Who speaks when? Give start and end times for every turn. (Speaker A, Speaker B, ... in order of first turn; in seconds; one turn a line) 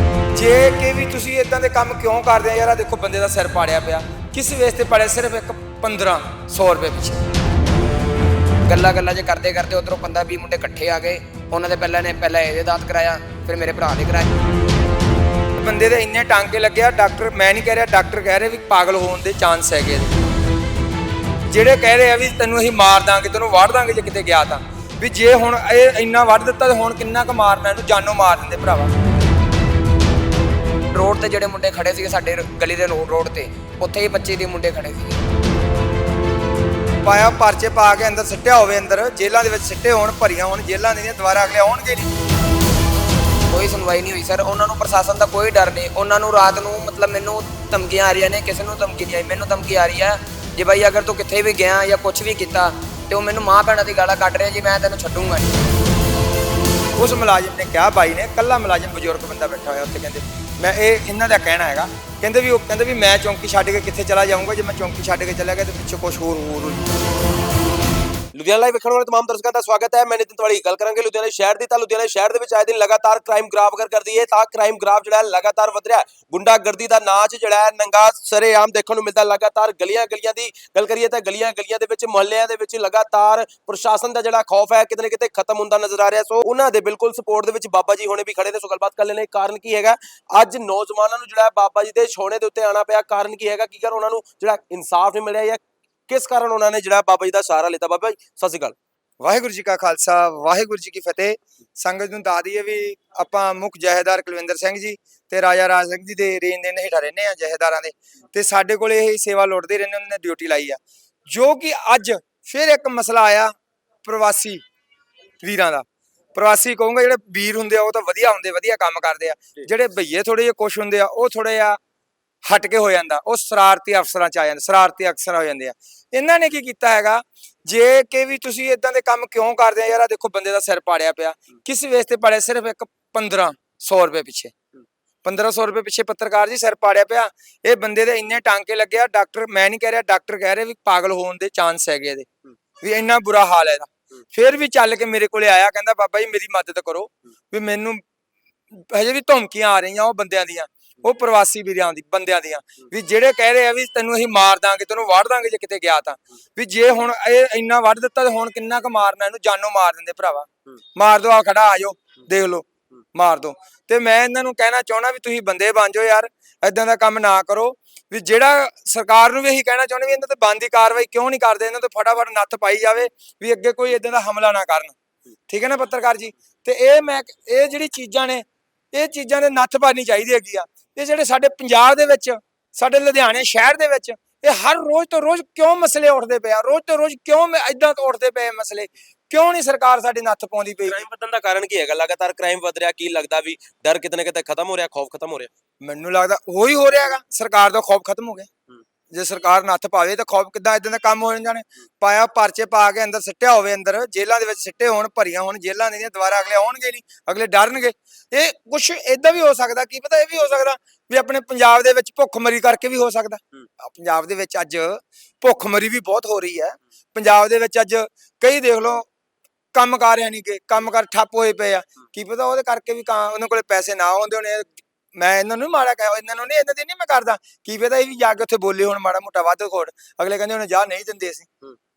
Speaker A: 0.3-7.2
Speaker B: 8.7-14.3
Speaker A: 15.6-20.1
Speaker A: 21.5-28.9
Speaker B: 30.9-35.2
Speaker A: 37.0-42.1
Speaker B: 43.5-55.5
Speaker A: 57.0-66.9
Speaker C: 68.3-98.8
Speaker A: 99.2-114.6
Speaker A: 115.4-121.8
Speaker A: 122.5-134.5
Speaker A: 135.2-142.3
Speaker A: 142.8-148.0
Speaker A: 148.7-174.9
Speaker A: 175.5-191.0
Speaker C: 190.8-195.5
Speaker A: 195.8-198.5
Speaker A: 199.1-219.1
Speaker A: 219.7-231.4